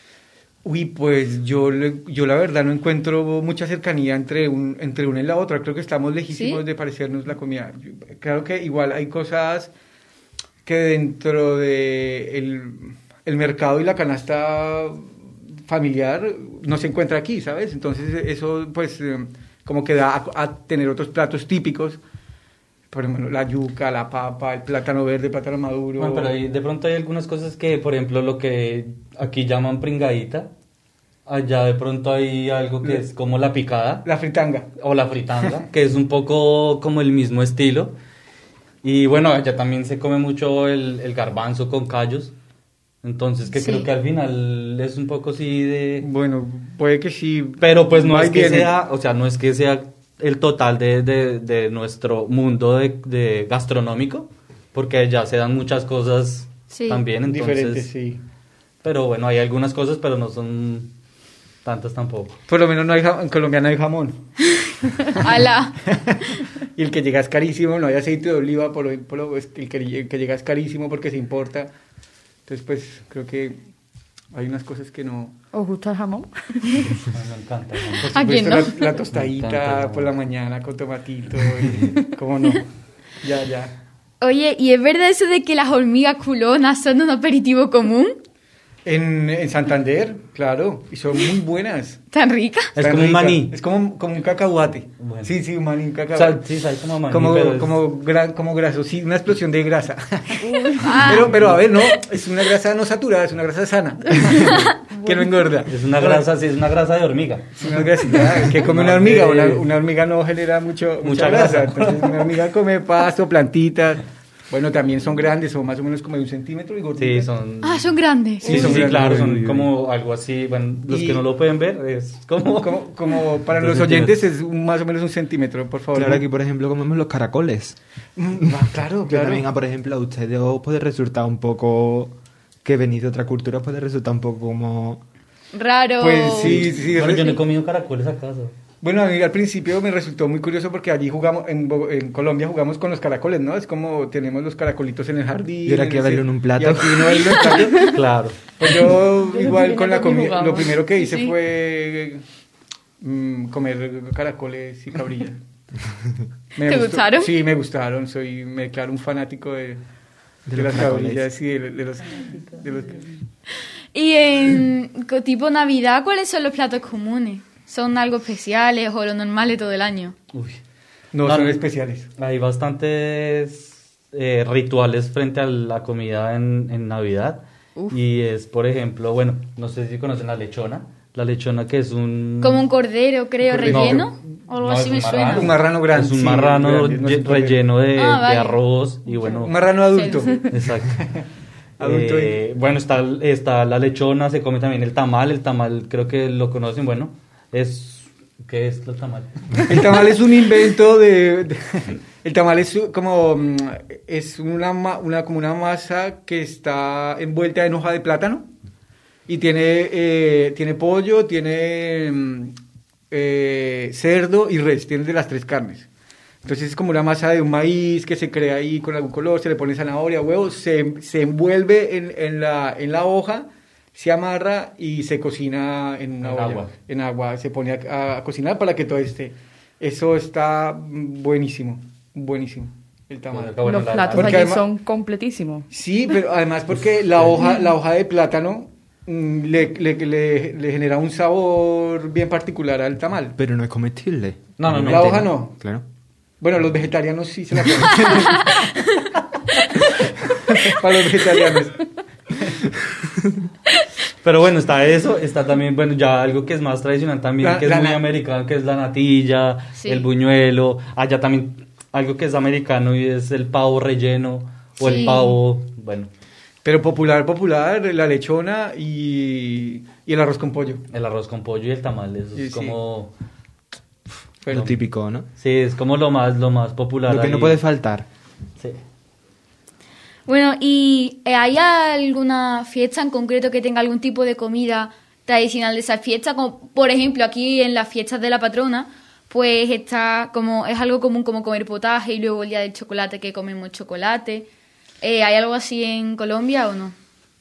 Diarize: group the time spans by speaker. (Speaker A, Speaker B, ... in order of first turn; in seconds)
Speaker A: 0.6-9.7, 10.6-22.0, 22.9-26.3, 34.0-34.7, 46.0-48.7, 57.2-58.2, 62.5-64.2, 65.1-71.7, 72.5-73.6, 74.3-75.3, 78.0-83.7, 88.8-92.0, 92.8-96.4, 97.1-106.2, 107.5-117.3, 118.4-119.6, 120.9-121.2, 122.6-126.2, 128.2-129.4, 136.0-137.4, 138.8-147.9, 148.6-152.2, 153.0-155.4, 156.6-159.8, 160.5-163.2, 171.1-172.1, 183.4-184.1, 185.3-187.6, 189.4-191.2, 191.8-192.4, 199.7-208.5, 209.3-212.5, 213.1-215.9, 216.4-234.6, 235.7-243.3, 244.8-245.6, 246.4-248.8, 249.7-252.5, 257.4-258.1, 266.6-270.9, 272.4-272.8, 274.4-274.7
Speaker B: 6.3-6.6, 43.5-43.9, 56.7-57.0, 65.2-65.8, 78.1-79.0, 84.2-88.2, 92.1-92.7, 100.8-102.0, 117.6-118.7, 135.5-136.7, 156.6-157.3, 163.9-170.2, 182.4-185.6, 187.9-188.6, 189.9-190.4, 259.8-260.0, 264.8-265.4, 280.3-294.5, 295.0-296.9
Speaker C: 26.0-30.5, 31.2-34.0, 34.8-37.9, 38.8-42.3, 43.0-46.0, 47.6-57.9, 58.8-60.9, 61.6-62.4, 77.1-80.1, 92.7-93.6, 95.0-95.3, 96.1-97.8, 101.3-101.6, 105.7-107.6, 108.1-109.7, 111.0-112.3, 117.0-122.8, 123.5-124.2, 136.4-138.5, 147.9-148.4, 170.3-170.6, 171.2-171.6, 172.2-182.7, 183.6-189.6, 190.4-191.0, 191.8-199.7, 226.2-226.7, 233.3-234.6, 244.6-245.3, 254.2-266.1, 270.9-273.1, 274.5-274.7, 275.4-277.6
Speaker D: 75.5-77.1, 100.4-101.1, 104.1-105.3, 147.6-147.9, 149.2-151.3, 233.6-235.7
Speaker E: 118.6-119.6, 125.9-127.8, 128.3-135.0, 145.6-147.8, 160.5-161.3, 243.3-245.8, 274.5-275.3, 277.1-278.1